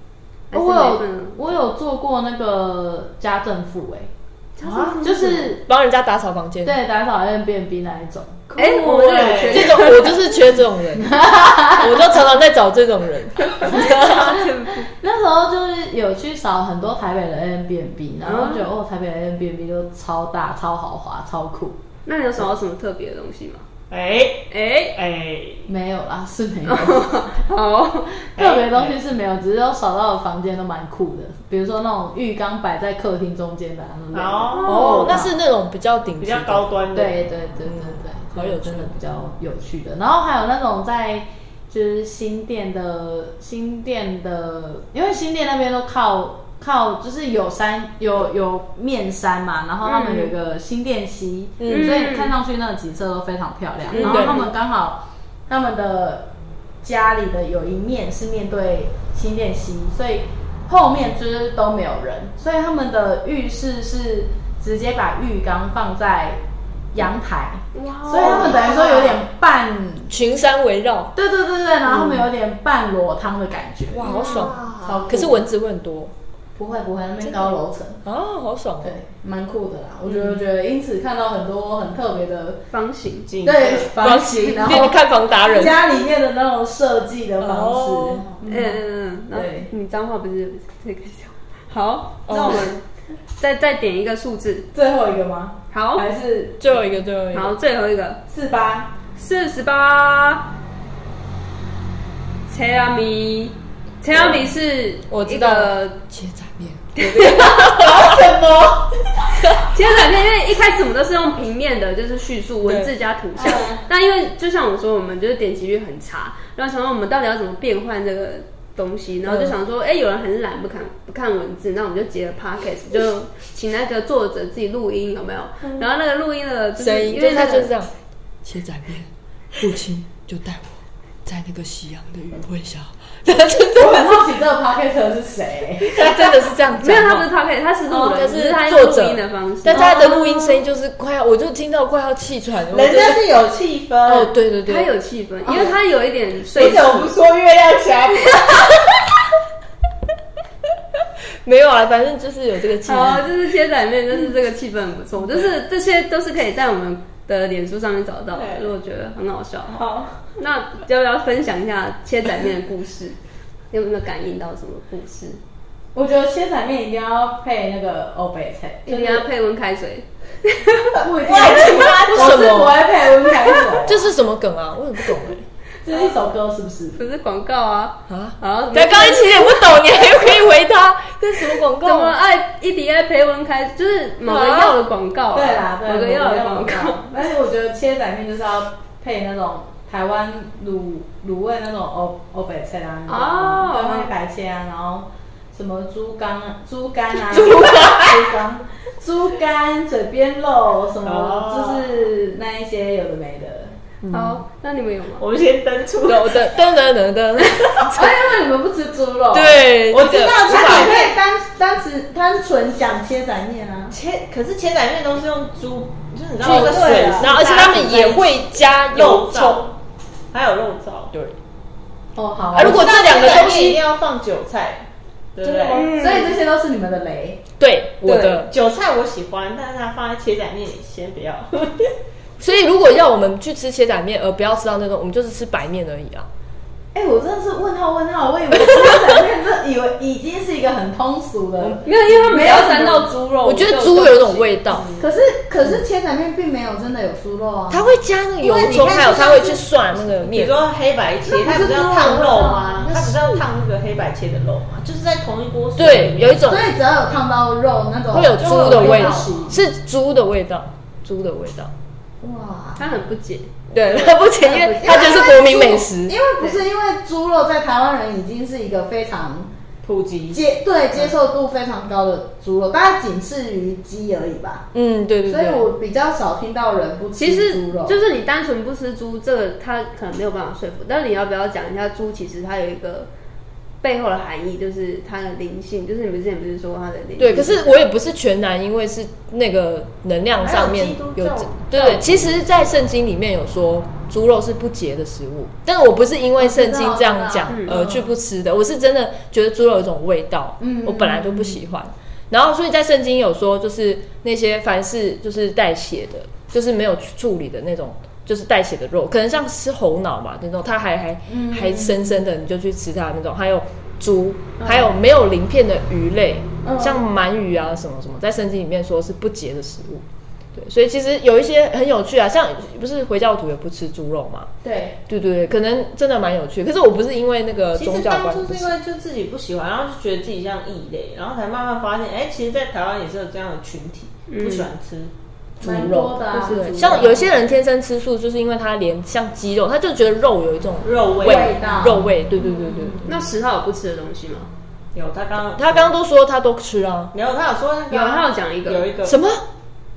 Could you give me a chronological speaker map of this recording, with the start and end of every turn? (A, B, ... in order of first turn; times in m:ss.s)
0:00.5-0:01.5 A
0:00.5-0:04.1 B
0:04.6-0:05.6 A
0:04.6-0:05.0 C
0:05.0-0:05.6 B
0:05.6-0:06.8 D
0:06.6-0:08.5 B
0:08.5-0:09.8 C
0:08.6-0:10.4 A
0:08.8-0:14.3 D
0:11.0-0:12.0 B
0:13.6-0:14.9 A
0:13.6-0:21.8 B
0:18.2-0:18.7 A
0:22.0-0:23.6 A
0:23.9-0:25.7 C
0:24.5-0:25.0 A
0:25.7-0:27.2 B
0:26.7-0:28.1 A
0:28.4-0:35.3 B
0:28.4-0:29.0 C
0:34.1-0:35.0 C
0:34.5-0:35.2 A
0:34.6-0:36.7 D
0:36.2-0:37.2 C
0:36.9-0:56.3 B
0:37.6-0:39.0 D
0:49.8-0:50.3 A
0:51.6-0:52.0 D
0:51.7-0:52.4 A
0:53.9-0:54.5 A
0:54.0-0:54.4 D
0:56.8-1:06.4 B
1:06.9-1:10.1 B
1:07.7-1:08.8 A
1:08.2-1:09.2 C
1:10.1-1:11.1 D
1:11.1-1:14.2 B
1:11.9-1:12.2 D
1:13.9-1:16.1 D
1:14.0-1:15.1 C
1:14.8-1:15.4 B
1:16.6-1:18.0 B
1:17.2-1:19.0 D
1:18.8-1:22.6 B
1:22.7-1:23.3 A
1:23.3-1:23.9 C
1:23.4-1:28.8 B
1:24.0-1:25.8 D
1:27.4-1:28.2 D
1:28.4-1:32.8 A
1:29.3-1:29.7 B
1:32.3-1:32.7 D
1:33.4-1:34.7 A
1:34.7-1:36.7 B
1:35.7-1:36.0 A
1:36.6-1:37.6 D
1:37.3-1:38.2 A
1:38.3-1:38.9 B
1:39.2-1:40.5 A
1:42.5-1:46.0 A
1:45.1-1:48.2 D
1:47.0-1:47.7 A
1:47.4-1:49.0 C
1:49.4-1:49.8 D
1:49.7-2:07.7 A
1:52.6-1:52.9 D
1:53.4-1:53.8 B
1:59.2-1:59.6 D
2:06.8-2:07.9 D
2:08.4-2:14.2 D
2:13.7-2:16.0 B
2:15.8-2:17.3 D
2:16.0-2:16.3 C
2:16.8-2:20.6 A
2:17.9-2:23.2 D
2:19.8-2:20.1 B
2:22.7-2:24.3 C
2:24.0-2:24.9 D
2:24.6-2:27.1 A
2:25.4-2:25.7 B
2:26.5-2:28.8 C
2:31.4-2:33.3 D
2:32.8-2:43.2 A
2:38.3-2:38.7 C
2:39.7-2:40.2 B
2:43.7-2:45.4 A
2:45.9-2:49.3 B
2:48.9-2:51.5 A
2:51.0-2:54.1 B
2:51.2-2:52.2 C
2:52.0-2:52.9 D
2:53.8-2:55.4 D
2:55.8-2:57.0 B
2:57.0-2:59.9 A
2:58.1-3:02.2 D
3:01.8-3:07.0 A
3:04.2-3:04.8 D
3:05.3-3:23.8 B
3:13.1-3:14.1 A
3:17.3-3:18.3 D
3:21.0-3:21.9 C
3:24.1-3:25.2 A
3:25.2-3:26.5 C
3:26.0-3:28.2 D
3:27.8-3:34.0 B
3:29.3-3:31.0 D
3:29.9-3:31.2 C
3:33.9-3:39.8 C
3:36.4-3:39.7 D
3:36.4-3:37.3 B
3:40.3-3:41.1 C
3:42.1-3:43.2 B
3:42.5-3:43.8 D
3:42.6-3:46.0 C
3:45.5-3:47.4 B
3:45.7-3:46.4 A
3:47.6-3:48.5 D
3:48.0-3:48.4 A
3:48.4-3:51.9 C
3:52.4-3:56.3 D
3:56.9-4:03.1 B
3:58.5-3:59.0 D
4:01.6-4:02.8 D
4:01.8-4:04.9 A
4:03.4-4:04.8 D
4:05.0-4:07.9 B
4:07.7-4:10.6 D
4:08.4-4:16.5 C
4:11.2-4:13.1 B
4:15.8-4:16.7 D
4:16.4-4:19.6 B
4:18.1-4:21.7 D
4:18.4-4:19.4 C
4:22.2-4:22.9 B
4:22.8-4:23.5 A
4:23.7-4:26.1 D
4:24.4-4:24.9 A
4:24.5-4:29.5 B
4:29.8-4:30.4 C
4:30.3-4:34.7 B
4:34.7-4:35.7 D
4:35.2-4:38.0 B
4:37.2-4:43.1 A
4:43.8-4:47.8 A
4:47.2-5:20.0 D
4:50.4-4:52.4 C
4:56.4-4:58.1 B
4:57.5-4:57.8 A
5:00.6-5:01.6 B
5:11.3-5:12.2 B
5:14.6-5:14.9 B
5:16.6-5:17.0 B
5:20.5-5:24.5 D
5:24.6-5:25.0 B
5:25.1-5:28.7 D
5:27.8-5:35.1 C
5:34.3-5:34.7 A
5:35.6-5:43.1 D
5:35.6-5:37.3 B
5:36.3-5:37.2 A
5:40.8-5:41.6 C
5:41.2-5:43.0 B
5:43.0-5:44.5 A
5:44.9-5:45.9 C
5:45.4-5:47.1 D
5:47.1-5:49.2 C
5:47.9-5:48.9 A
5:49.0-5:49.4 D